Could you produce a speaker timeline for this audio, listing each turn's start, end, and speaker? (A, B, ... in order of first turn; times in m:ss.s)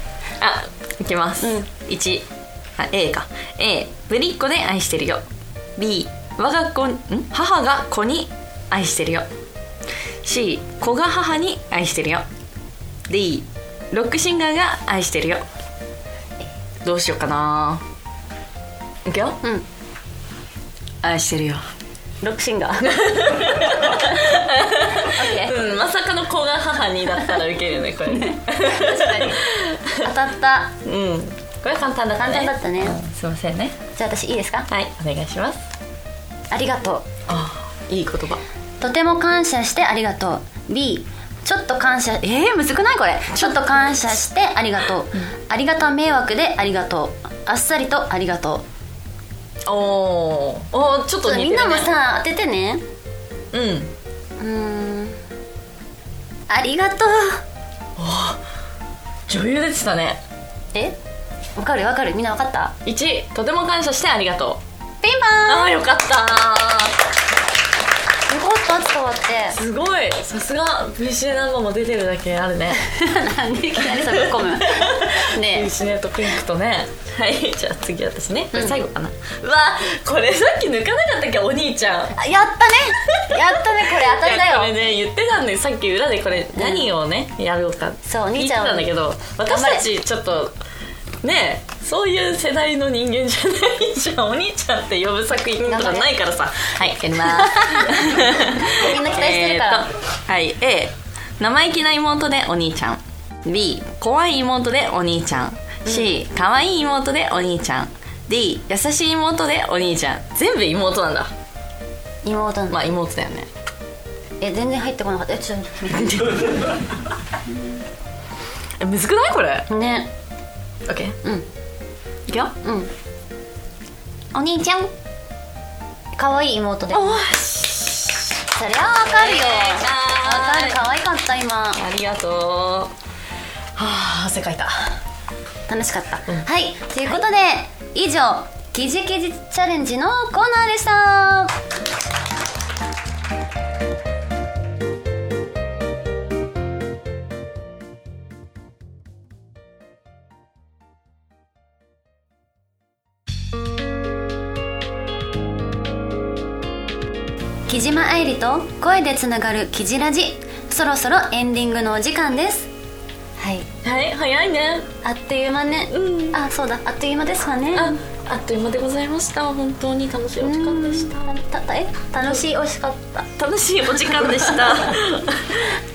0:00.4-0:05.2 A
0:01.4-0:01.7 B
0:05.8-0:09.3 A
0:10.2-0:12.3 A
0:13.1-0:15.4 A
0:16.8-0:17.8 A
0:19.0-0:19.4 A
0:21.0-0:21.6 A
0:22.2-0:23.1 B
0:22.9-0:30.1 A
0:23.6-0:24.2 B
0:24.9-0:25.6 B
0:28.0-0:30.8 B
0:30.8-0:33.8 A
0:32.2-0:33.0 B
0:34.0-0:34.7 B
0:34.7-0:35.6 A
0:36.5-0:37.1 B
0:37.3-0:38.4 A
0:38.8-0:48.6 B
0:43.3-0:44.1 A
0:49.7-0:51.9 A
0:51.2-0:52.8 B
0:53.5-0:53.9 A
0:54.4-0:55.2 B
0:56.5-0:57.4 B
0:58.0-0:58.4 A
0:59.3-1:00.2 A
1:01.6-1:02.8 B
1:02.8-1:04.6 A
1:05.0-1:05.8 B
1:05.5-1:07.0 A
1:08.3-1:09.6 B
1:09.5-1:12.8 A
1:12.8-1:15.7 B
1:13.8-1:22.2 A
1:18.5-1:18.8 B
1:22.1-1:24.8 B
1:23.1-1:30.5 A
1:26.5-1:26.9 B
1:28.0-1:28.9 B
1:29.5-1:29.9 B
1:31.2-1:51.3 A
1:35.7-1:36.1 B
1:37.2-1:39.9 B
1:52.2-1:52.8 B
1:52.7-1:53.5 A
1:54.4-1:56.7 B
1:58.8-1:59.7 A
1:59.7-2:00.1 B
2:00.9-2:01.2 A
2:02.3-2:02.5 A
2:02.6-2:02.9 B
2:04.3-2:04.9 B
2:06.2-2:07.2 B
2:06.9-2:08.4 A
2:08.5-2:11.8 B
2:09.0-2:10.8 A
2:11.7-2:13.0 A
2:13.8-2:15.0 A
2:15.7-2:21.5 B
2:37.7-2:42.7 B
2:43.4-2:43.7 B
2:43.8-2:44.9 A
2:45.0-2:48.0 B
2:45.9-2:46.4 A
2:47.7-2:51.3 A
2:50.4-2:53.3 B
2:53.4-2:55.8 A
2:54.0-2:55.0 B